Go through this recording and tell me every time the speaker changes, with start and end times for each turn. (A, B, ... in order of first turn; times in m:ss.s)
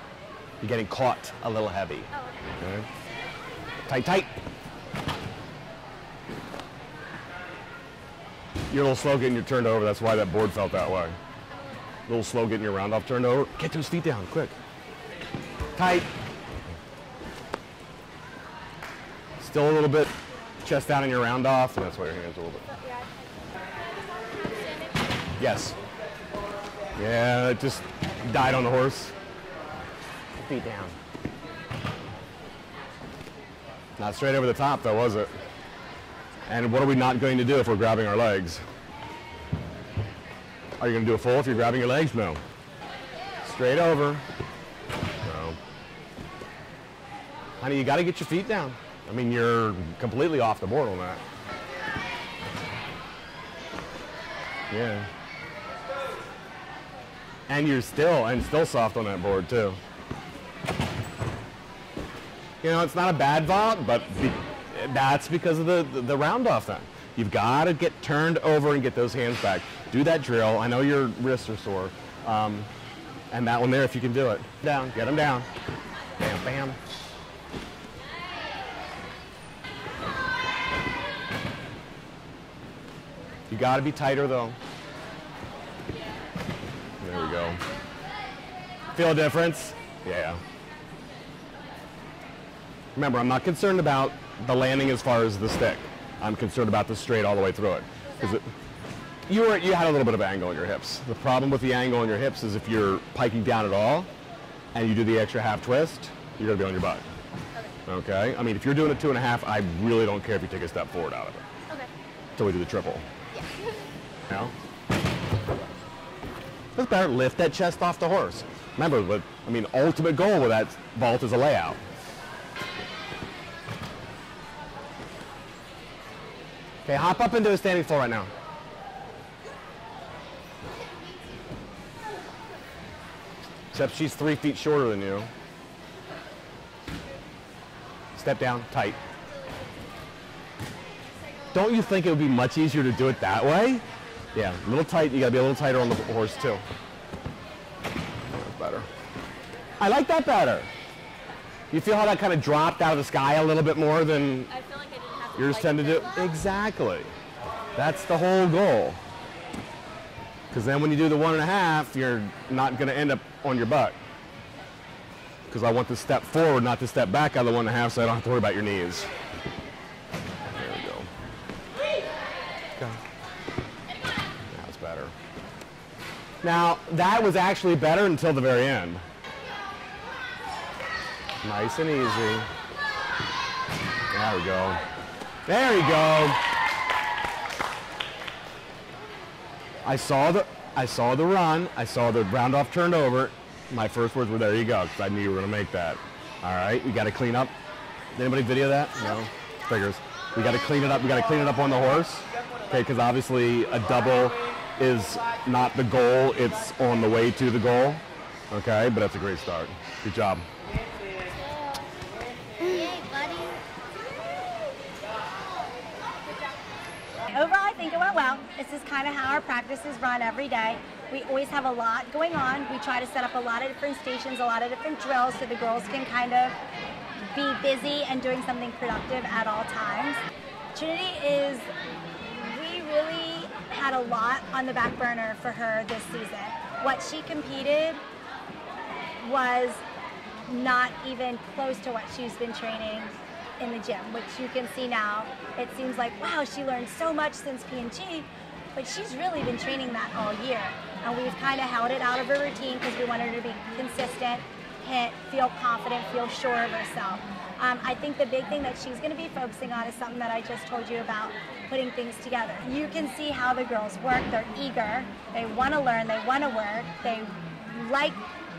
0:00.6-0:02.1 A
0:02.6-0:02.9 A
0:03.8-0:04.3 A
0:08.7-0:11.2 A
0:12.1-0:14.6 A
0:15.7-0:16.1 A
0:19.4-0:22.7 A
0:22.7-0:25.2 B
0:25.4-0:25.8 A
0:27.0-0:29.1 A
0:30.3-0:31.0 A
0:34.0-0:35.4 A
0:36.4-0:38.6 A
0:40.8-0:42.4 A
0:43.4-0:44.2 A
0:45.2-0:45.6 A
0:47.6-0:51.2 A
0:54.7-0:55.1 A
0:57.5-0:59.8 A
1:02.6-1:12.7 A
1:13.3-1:15.5 A
1:16.2-1:16.8 A
1:23.5-1:24.6 A
1:27.0-1:27.6 A
1:28.9-1:30.4 A
1:32.9-1:38.5 A
1:39.3-1:44.1 A
1:44.7-1:47.0 A
1:47.8-1:51.4 A
1:52.4-1:53.0 A
1:53.3-1:53.8 B
1:56.8-2:01.8 A
2:06.8-2:08.3 A
2:13.7-2:15.3 A
2:18.2-2:19.0 A
2:19.2-2:19.8 B
2:21.2-2:21.5 B
2:21.5-2:26.6 A
2:28.2-2:28.9 A
2:29.8-2:30.7 A
2:31.7-2:34.5 A
2:34.5-2:36.2 B
2:35.3-2:37.1 A
2:37.7-2:39.0 A
2:40.5-2:44.0 A
2:45.5-2:49.1 A
2:50.4-2:51.1 A
2:52.8-2:53.0 A
2:54.5-2:55.1 A
2:56.4-2:59.0 A
3:01.4-3:02.5 A
3:04.1-3:04.8 A
3:05.4-3:06.4 A
3:09.8-3:17.5 A
3:18.1-3:30.4 A
3:32.6-3:33.6 B
3:37.3-3:46.6 C
3:47.2-3:50.2 C
3:50.7-3:51.7 C
3:52.3-3:58.0 C
3:59.2-3:59.8 C
4:00.5-4:28.2 C